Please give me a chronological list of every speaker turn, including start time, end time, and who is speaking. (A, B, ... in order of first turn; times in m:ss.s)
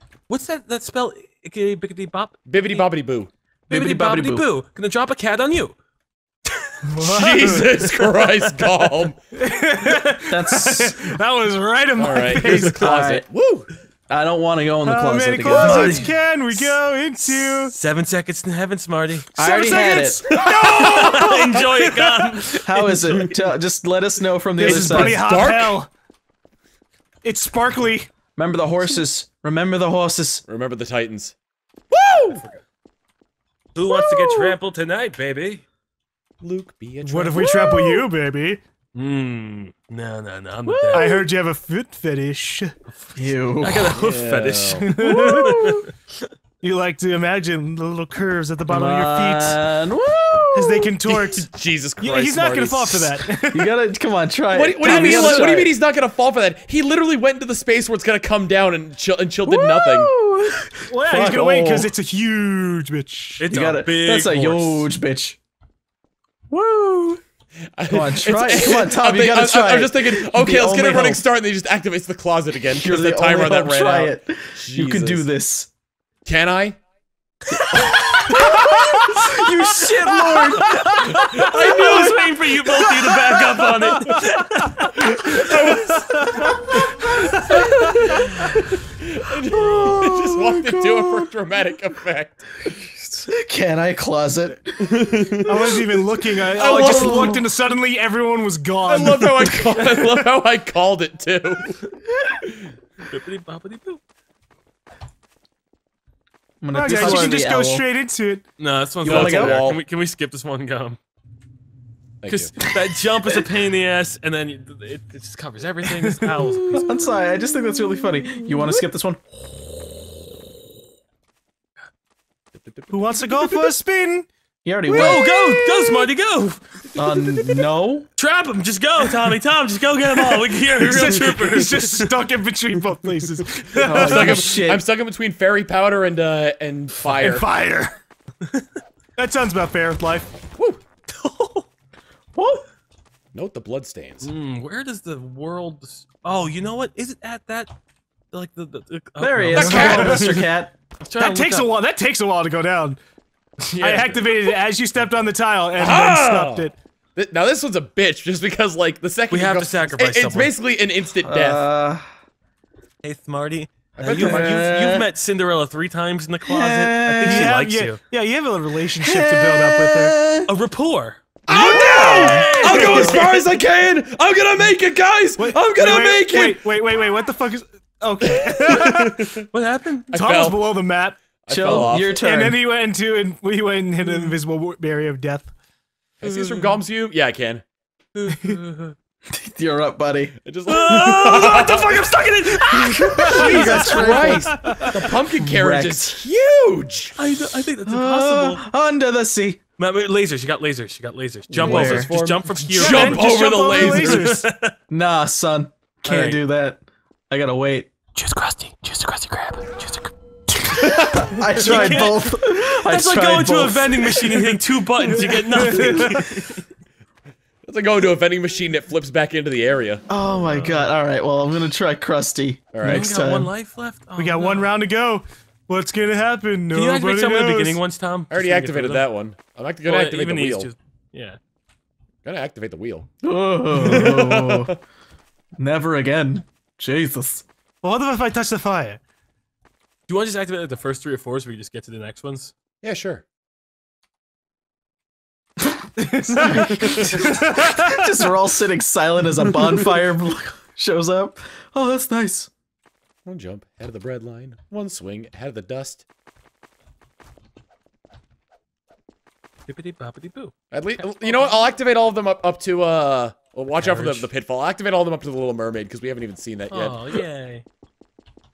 0:00.3-0:02.8 A
0:02.5-0:03.3 B
0:03.7-0:04.5 C
0:03.7-0:05.7 A
0:06.9-0:08.0 D
0:07.0-0:09.2 B
0:09.4-0:12.8 D
0:10.3-0:11.1 C
0:12.0-0:13.7 B
0:12.6-0:13.2 C
0:14.1-0:16.0 C
0:14.8-0:17.7 D
0:15.4-0:16.7 A
0:17.3-0:19.3 A
0:19.3-0:22.4 D
0:19.4-0:20.2 C
0:20.3-0:21.7 B
0:20.6-0:23.2 A
0:22.6-0:25.2 C
0:24.6-0:25.9 D
0:24.6-0:25.8 B
0:27.2-0:28.1 D
0:28.4-0:30.4 C
0:30.5-0:31.3 B
0:31.9-0:32.4 B
0:32.2-0:32.6 A
0:33.7-0:35.6 A
0:33.8-0:34.6 C
0:36.4-0:37.6 B
0:37.0-0:38.6 D
0:37.4-0:38.1 C
0:38.9-0:41.2 A
0:40.6-0:41.2 C
0:40.9-0:42.8 D
0:42.9-0:45.8 A
0:43.2-0:44.0 C
0:43.9-0:44.9 B
0:44.8-0:45.7 D
0:45.0-0:45.8 C
0:46.6-0:49.6 D
0:48.7-0:50.9 C
0:50.5-0:51.5 D
0:51.1-0:53.2 B
0:52.0-0:53.7 D
0:53.5-0:55.7 C
0:54.5-1:00.1 B
0:54.8-0:55.6 D
0:59.4-1:01.9 C
1:00.9-1:03.5 D
1:03.4-1:04.9 A
1:03.5-1:05.4 C
1:06.5-1:07.2 C
1:07.8-1:15.3 B
1:07.9-1:11.2 C
1:12.6-1:15.7 C
1:16.2-1:16.8 B
1:17.6-1:22.1 C
1:18.3-1:19.3 D
1:19.8-1:21.8 D
1:20.9-1:22.4 B
1:21.4-1:25.8 A
1:22.8-1:24.4 D
1:25.0-1:26.6 B
1:25.5-1:26.5 D
1:26.7-1:28.7 C
1:27.1-1:28.0 D
1:27.6-1:32.9 B
1:29.5-1:31.3 C
1:33.2-1:35.8 C
1:34.8-1:37.5 B
1:35.4-1:40.0 D
1:36.7-1:37.4 C
1:38.8-1:41.8 B
1:43.0-1:44.0 A
1:46.6-1:47.8 C
1:46.7-1:48.5 D
1:46.9-1:47.3 A
1:48.6-1:51.0 A
1:49.0-1:49.6 C
1:49.0-1:49.8 B
1:52.2-1:52.5 B
1:52.3-1:56.9 A
1:56.0-1:56.6 D
1:56.7-1:59.2 C
2:02.6-2:03.4 B
2:02.9-2:04.3 D
2:04.6-2:05.3 C
2:04.9-2:05.9 D
2:04.9-2:06.8 A
2:07.0-2:08.1 C
2:08.2-2:12.2 A
2:10.4-2:14.6 D
2:13.8-2:14.8 C
2:13.8-2:17.5 B
2:17.1-2:18.0 D
2:19.2-2:20.3 D
2:21.1-2:21.7 A
2:22.3-2:22.6 C
2:23.3-2:24.3 B
2:24.2-2:27.7 A
2:28.3-2:30.5 A
2:29.2-2:30.7 C
2:29.5-2:30.4 B
2:29.5-2:30.3 D
2:31.0-2:31.7 A
2:31.2-2:33.0 D
2:33.7-2:36.7 D
2:33.8-2:34.1 B
2:33.8-2:34.2 A
2:35.8-2:41.6 B
2:39.3-2:40.5 A
2:41.2-2:42.1 C
2:43.0-2:48.0 A
2:44.0-2:44.5 B
2:44.0-2:45.1 C
2:46.4-2:47.6 C
2:47.2-2:50.1 D
2:49.0-2:50.5 C
2:50.4-2:51.2 A
2:51.5-2:56.7 B
2:51.5-2:53.1 D
2:51.5-2:53.4 C
2:52.0-2:53.2 A
2:55.4-2:59.4 D
2:58.2-2:59.5 B
2:59.5-3:00.1 A
3:00.1-3:00.6 B
3:00.1-3:05.5 D
3:01.4-3:02.2 B
3:01.5-3:02.6 C
3:04.0-3:04.3 A
3:06.2-3:07.6 B
3:06.2-3:06.8 A
3:08.1-3:09.0 A
3:09.3-3:10.3 C
3:10.4-3:12.1 B
3:10.7-3:14.9 A
3:12.7-3:16.3 C
3:13.3-3:15.0 D
3:13.3-3:17.2 B
3:17.2-3:18.6 A
3:17.8-3:19.6 C
3:19.8-3:23.2 A
3:21.5-3:22.1 C
3:21.6-3:24.4 B
3:22.8-3:24.5 D
3:23.7-3:24.7 A
3:24.9-3:27.9 C
3:26.0-3:26.4 A
3:28.1-3:36.6 A
3:30.8-3:32.0 B
3:31.2-3:34.5 C
3:35.5-3:36.2 C
3:35.6-3:36.2 D
3:37.6-3:40.0 B
3:40.1-3:43.5 C
3:40.3-3:40.9 A
3:42.7-3:43.1 B
3:42.8-3:44.7 A
3:44.2-3:47.8 D
3:46.7-3:49.1 A
3:48.3-3:50.7 B
3:49.8-3:51.4 A
3:52.2-3:53.1 B
3:53.2-3:54.8 C
3:53.8-3:54.7 B
3:55.6-3:57.4 C
3:57.8-3:59.0 D
4:00.1-4:02.5 A
4:02.8-4:03.2 B
4:06.0-4:08.3 D
4:06.2-4:12.5 C
4:06.4-4:07.1 B
4:09.6-4:09.9 D
4:13.2-4:16.0 B
4:19.7-4:20.5 A
4:20.7-4:27.2 B
4:23.8-4:24.3 A
4:26.7-4:27.6 A